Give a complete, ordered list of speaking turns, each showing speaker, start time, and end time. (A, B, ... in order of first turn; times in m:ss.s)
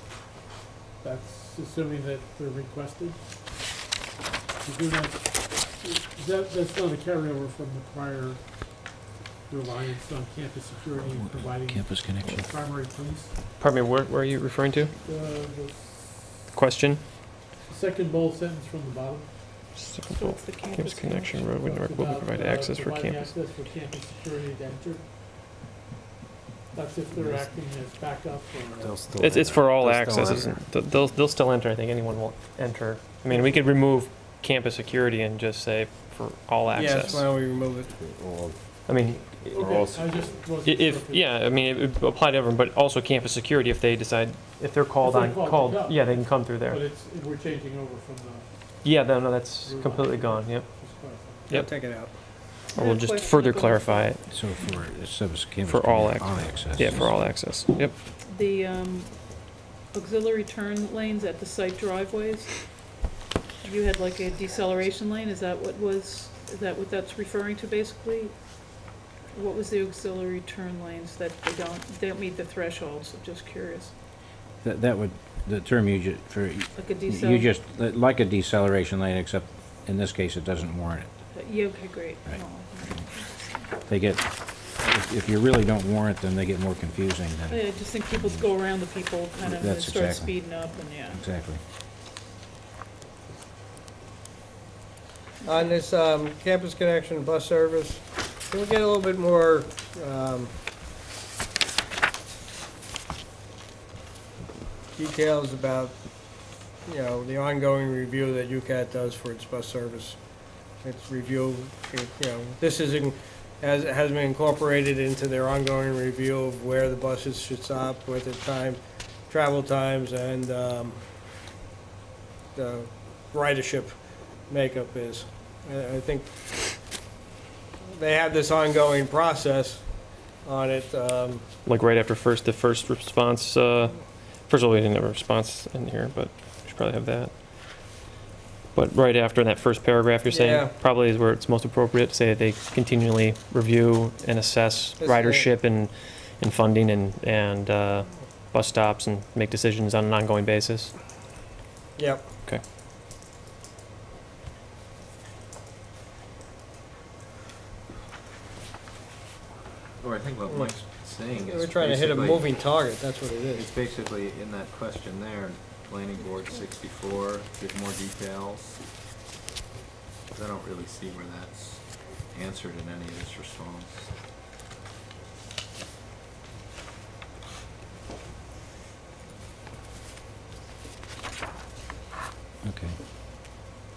0:01.0-0:03.2 A
0:04.6-0:08.9 A
0:09.5-0:13.3 A
0:11.1-0:12.5 B
0:13.6-0:14.9 C
0:15.0-0:16.5 A
0:16.5-0:17.0 C
0:17.6-0:19.3 A
0:19.7-0:23.3 C
0:20.1-0:21.5 D
0:21.5-0:25.0 A
0:26.7-0:29.1 A
0:28.8-0:29.6 E
0:29.1-0:30.5 B
0:29.2-0:37.3 C
0:33.3-0:33.6 A
0:36.7-0:37.9 F
0:38.1-0:38.5 B
0:38.9-0:39.6 C
0:39.5-0:41.3 A
0:39.5-0:40.0 E
0:40.6-0:46.8 C
0:45.0-0:49.0 A
0:48.8-0:50.7 C
0:49.6-0:51.6 A
0:51.2-0:51.7 C
0:51.5-0:52.1 F
0:52.7-0:54.3 C
0:52.8-0:54.1 D
0:54.3-0:57.2 B
0:55.6-0:57.9 C
0:58.2-1:02.9 D
1:03.6-1:08.4 D
1:09.3-1:13.9 D
1:14.6-1:21.1 B
1:16.7-1:17.5 D
1:21.3-1:23.7 D
1:23.9-1:28.4 B
1:27.5-1:31.2 D
1:29.4-1:31.6 B
1:35.4-1:35.7 D
1:35.4-1:40.5 F
1:45.0-1:45.9 F
1:46.8-1:50.2 F
1:50.8-2:01.0 F
2:02.5-2:03.9 F
2:04.5-2:06.5 F
2:07.8-2:09.8 F
2:10.4-2:11.4 F
2:11.6-2:17.3 C
2:18.7-2:30.9 C
2:20.2-2:20.7 F
2:25.0-2:25.5 F
2:32.0-2:32.2 F
2:40.0-2:42.6 E
2:40.4-2:40.7 F
2:41.3-2:43.7 F
2:43.5-2:48.8 E
2:50.3-2:54.1 E
3:02.6-3:03.0 B